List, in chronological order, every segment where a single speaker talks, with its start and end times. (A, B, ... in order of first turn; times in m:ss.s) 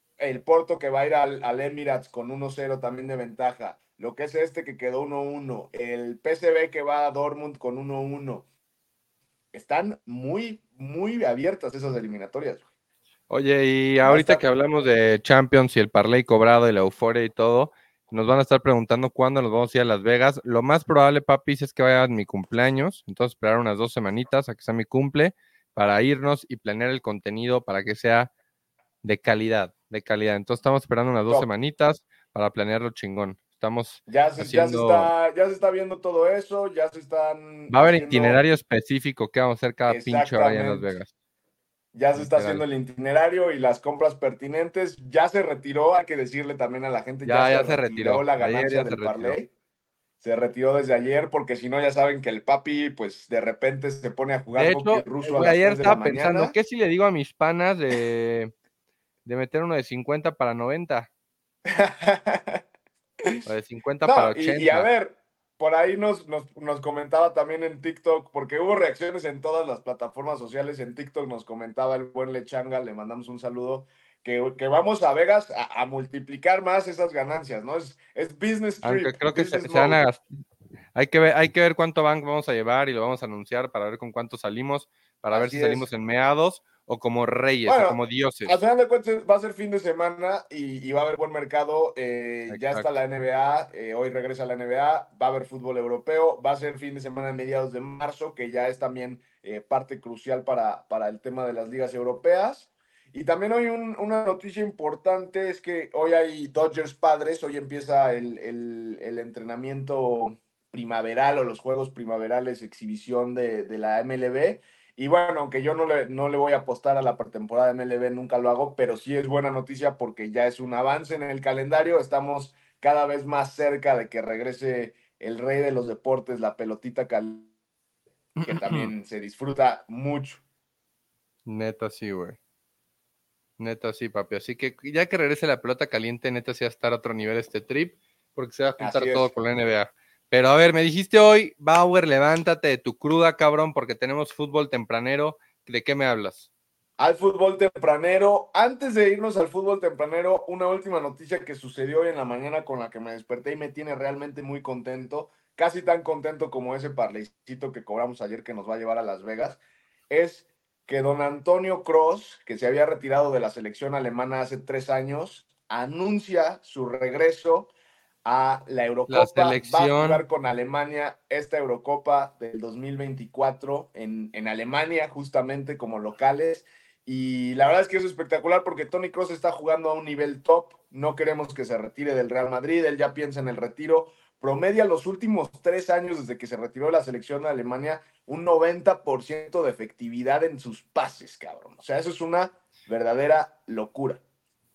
0:00.2-0:08.4 A
0:09.5-0:12.6 A
0:13.3-0:28.3 B
0:14.0-0:14.4 A
0:29.0-0:35.1 B
0:34.1-0:38.4 A
0:37.7-0:41.1 B
0:39.9-0:40.9 A
0:41.9-0:49.5 A
0:42.1-0:42.6 B
0:47.2-0:49.4 B
0:50.2-0:56.6 A
0:54.5-0:58.5 B
0:59.2-1:01.1 B
1:01.7-1:02.6 A
1:03.5-1:04.9 B
1:04.0-1:20.0 A
1:18.8-1:20.2 B
1:20.9-1:28.6 B
1:25.3-1:25.9 A
1:27.7-2:07.5 A
1:32.5-1:32.9 B
2:08.4-2:10.4 A
2:08.4-2:08.9 B
2:11.5-2:12.4 B
2:13.6-2:26.5 B
2:18.8-2:19.4 A
2:27.0-2:47.7 A
2:48.2-3:14.2 A
2:49.1-2:50.3 B